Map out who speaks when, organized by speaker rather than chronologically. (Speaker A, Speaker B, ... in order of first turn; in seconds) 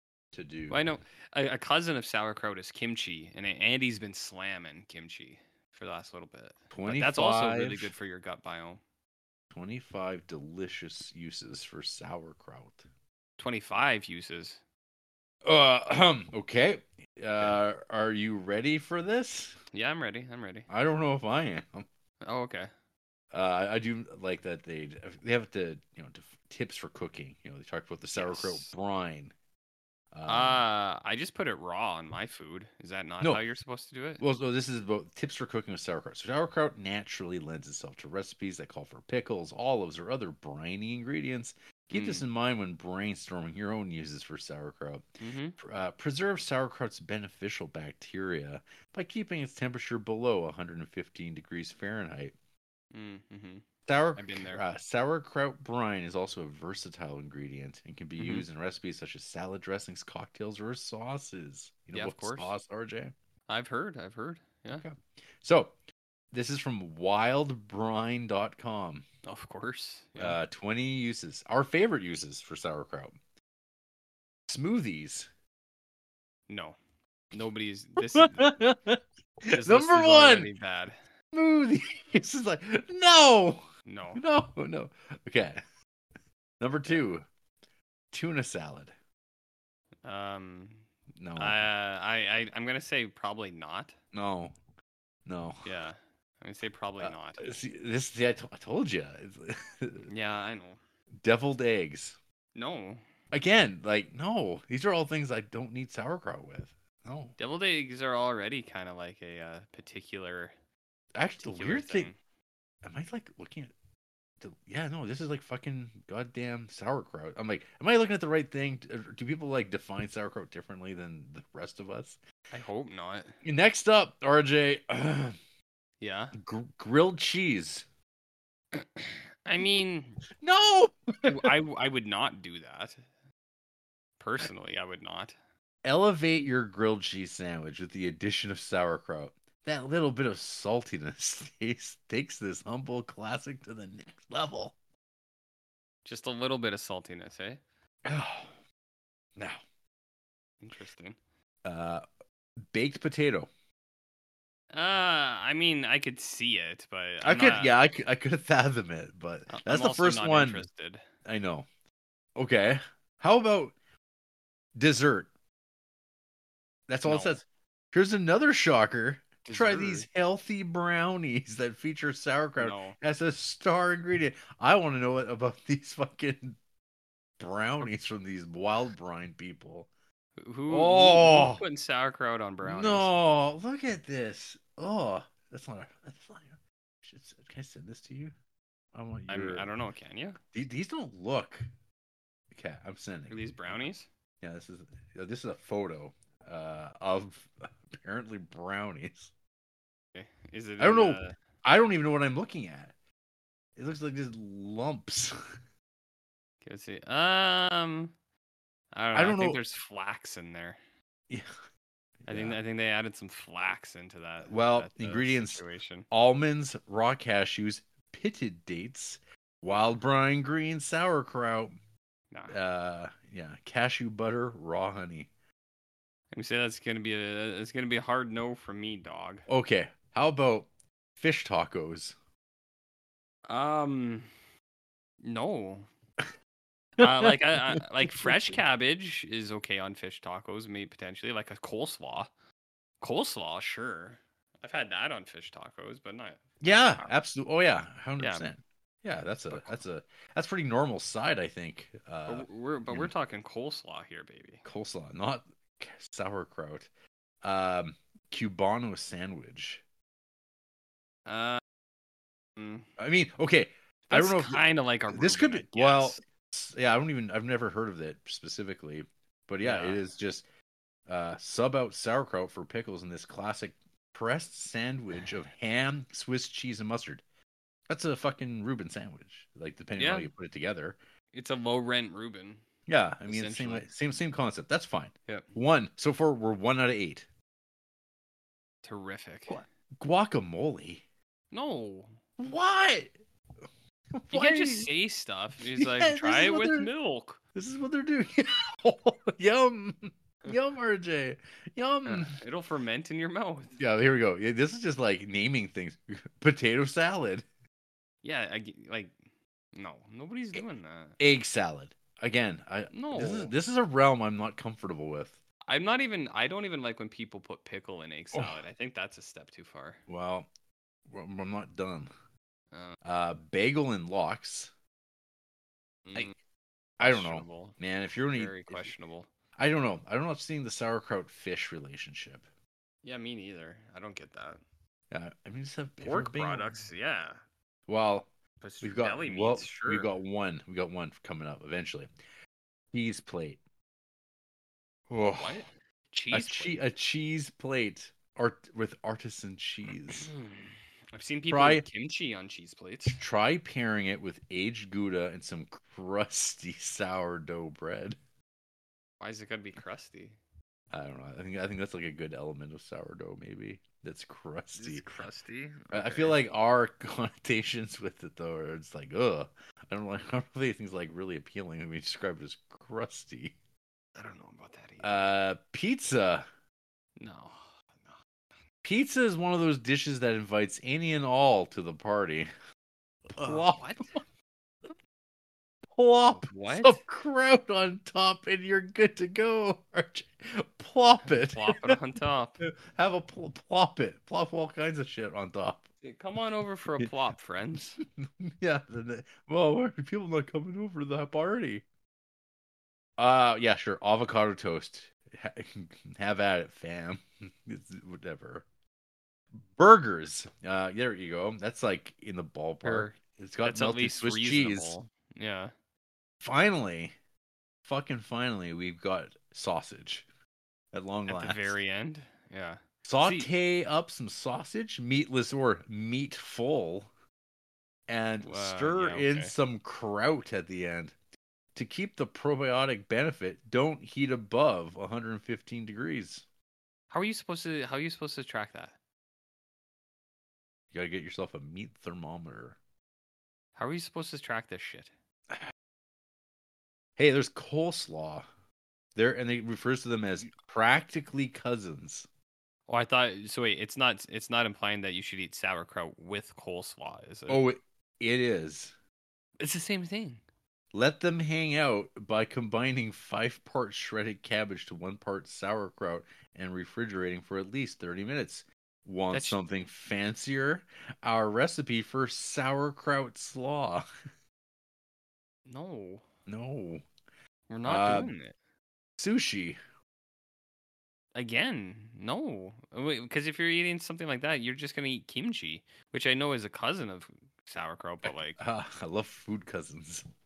Speaker A: 0.3-0.8, 6.7-7.9, 9.5-12.8, 15.4-19.6, 20.7-21.9, 23.3-29.3, 30.1-30.6, 34.2-45.0, 45.6-52.3, 53.9-63.1, 64.7-65.7, 66.3-69.0, 70.2-73.2, 74.5-75.3, 78.0-80.5, 81.3-85.6, 86.6-87.3, 88.1-88.9, 91.2-91.7, 94.1-94.6, 95.3-95.7, 97.0-100.1, 101.2-102.2, 103.3-107.3, 111.2-112.1, 112.8-113.7, 114.4-122.2, 123.4-125.4, 126.3-127.9, 130.3-131.5, 135.8-144.8, 148.1-148.6, 151.7-152.0, 152.7-153.5, 157.2-160.7, 161.2-161.7, 162.4-163.7, 164.8-165.3, 166.9-176.6, 177.4-179.9, 180.7-181.6, 182.6-188.3, 188.9-189.7, 190.5-191.7, 192.5-193.8, 194.4-199.3, 200.8-202.9, 203.8-205.4, 209.1-209.6, 212.2-212.6, 214.5-221.8, 222.5-225.3, 229.5-232.2, 237.0-238.6, 246.6-253.1, 254.7-256.9, 257.4-259.8, 263.0-270.4, 271.1-277.2, 277.9-281.0, 282.9-287.3, 289.5-291.0, 292.4-293.1, 294.1-294.9, 295.7-296.9, 297.6-302.4, 303.8-307.4, 311.2-315.4, 318.3-318.6, 320.1-320.5, 321.1-322.1, 323.0-324.7, 327.0-328.9, 329.6-332.4, 335.1-336.7, 337.9-338.3, 338.8-342.1, 342.9-343.6, 345.1-345.6, 346.3-350.3, 351.5-351.9, 353.1-358.2, 360.9-365.1, 365.9-373.6, 375.0-376.5, 378.8-382.5, 383.3-384.1, 385.9-392.0, 392.6-395.8, 398.2-401.8, 403.2-408.6, 409.6-415.0, 416.4-417.1, 417.9-420.2, 420.9-421.8, 423.1-427.1, 428.1-431.1, 431.8-436.4, 440.9-442.8, 447.2-448.5, 449.2-452.3, 457.5-458.9, 460.9-474.1, 476.5-477.1, 477.9-478.3, 479.2-479.8, 488.2-490.3
Speaker B: 0.7-8.8, 13.4-14.6, 19.7-20.7, 22.2-22.7, 28.1-28.7, 30.3-34.2, 41.9-42.2, 45.2-45.6, 52.9-54.6, 58.2-58.5, 61.9-62.6, 63.5-64.8, 69.2-70.4, 76.5-76.8, 77.3-78.6, 79.5-81.0, 83.9-84.2, 90.0-94.0, 95.6-97.6, 100.1-100.8, 102.5-103.0, 107.4-110.5, 111.4-112.2, 122.5-123.4, 126.0-126.3, 128.7-130.2, 131.3-133.0, 134.2-135.4, 146.1-147.6, 150.6-151.2, 154.7-157.7, 159.5-161.1, 167.1-167.4, 169.4-170.1, 172.6-173.0, 180.4-183.1, 189.3-190.4, 193.3-194.1, 200.1-201.3, 206.6-208.1, 208.9-210.8, 212.3-216.1, 226.3-229.5, 233.5-234.3, 235.2-235.9, 237.0-242.3, 243.0-246.4, 248.2-248.5, 249.5-249.8, 252.3-254.6, 261.3-261.6, 262.6-262.9, 264.1-266.2, 269.6-270.0, 280.0-280.3, 281.3-282.6, 283.3-283.9, 288.8-289.6, 291.5-292.2, 294.3-297.4, 302.1-303.8, 308.2-309.1, 309.8-311.2, 312.9-313.5, 315.7-320.0, 322.7-323.0, 326.1-326.4, 327.0-327.8, 328.3-329.3, 333.0-334.6, 336.0-337.4, 338.6-340.1, 345.4-346.9, 350.1-353.2, 359.2-360.4, 364.8-366.5, 374.2-375.3, 377.2-378.2, 383.4-384.1, 386.4-387.0, 391.2-392.6, 396.0-398.0, 412.8-415.7, 421.3-423.5, 428.4-429.5, 437.1-438.9, 443.8-445.1, 452.9-457.6, 459.6-460.4, 469.3-469.6, 475.7-476.2, 477.7-478.6, 481.4-488.6